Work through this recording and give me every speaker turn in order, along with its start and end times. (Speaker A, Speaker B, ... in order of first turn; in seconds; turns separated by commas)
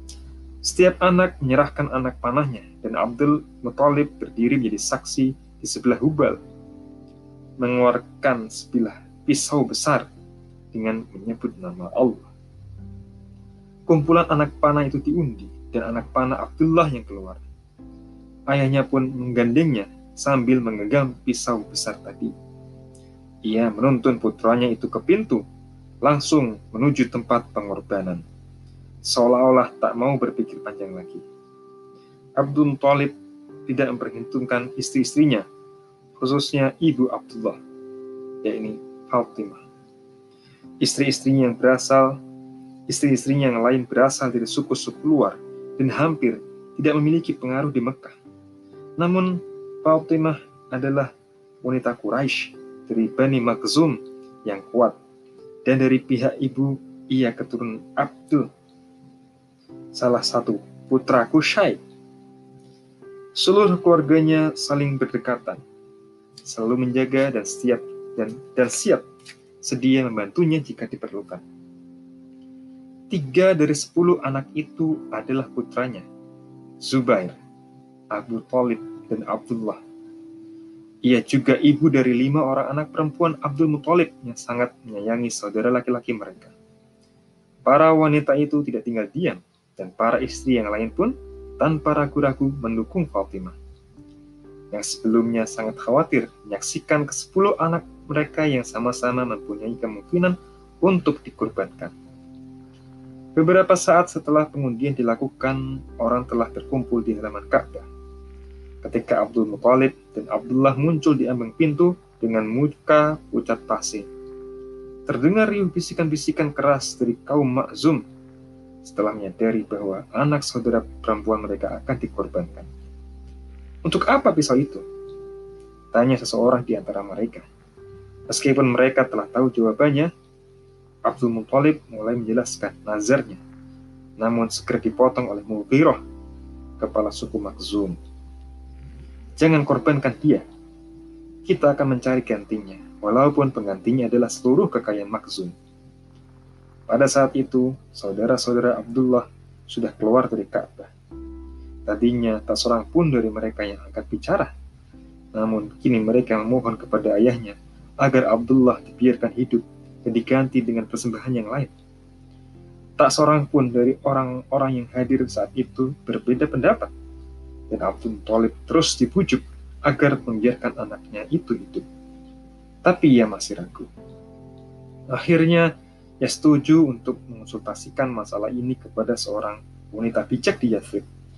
Speaker A: 0.6-6.4, Speaker A: 7.6-10.1, Speaker A: 10.7-12.3, Speaker A: 13.9-17.4, Speaker A: 18.5-22.3, Speaker A: 23.4-25.4, Speaker A: 26.0-28.2, Speaker A: 29.0-31.2, Speaker A: 32.4-33.1, Speaker A: 33.7-35.5, Speaker A: 36.2-37.6, Speaker A: 38.4-39.6, Speaker A: 40.8-42.2, Speaker A: 42.9-48.2, Speaker A: 49.0-51.1, Speaker A: 51.6-55.0, Speaker A: 55.7-58.5, Speaker A: 60.0-61.8, Speaker A: 63.4-65.6, Speaker A: 66.5-69.0, Speaker A: 69.6-71.4, Speaker A: 73.1-76.1, Speaker A: 76.8-77.4, Speaker A: 78.1-79.8, Speaker A: 81.1-86.5, Speaker A: 87.7-93.6, Speaker A: 94.7-101.9, Speaker A: 103.4-107.9, Speaker A: 108.8-114.1, Speaker A: 115.1-118.0, Speaker A: 118.8-122.7, Speaker A: 123.8-124.8, Speaker A: 125.9-127.5, Speaker A: 128.3-130.1, Speaker A: 131.1-133.4, Speaker A: 134.2-136.0, Speaker A: 136.8-138.0, Speaker A: 139.4-140.4, Speaker A: 141.5-145.5, Speaker A: 146.9-150.9, Speaker A: 151.9-154.5, Speaker A: 155.3-161.7, Speaker A: 163.0-166.9, Speaker A: 167.7-171.8, Speaker A: 172.8-173.9, Speaker A: 175.1-175.7, Speaker A: 176.2-181.1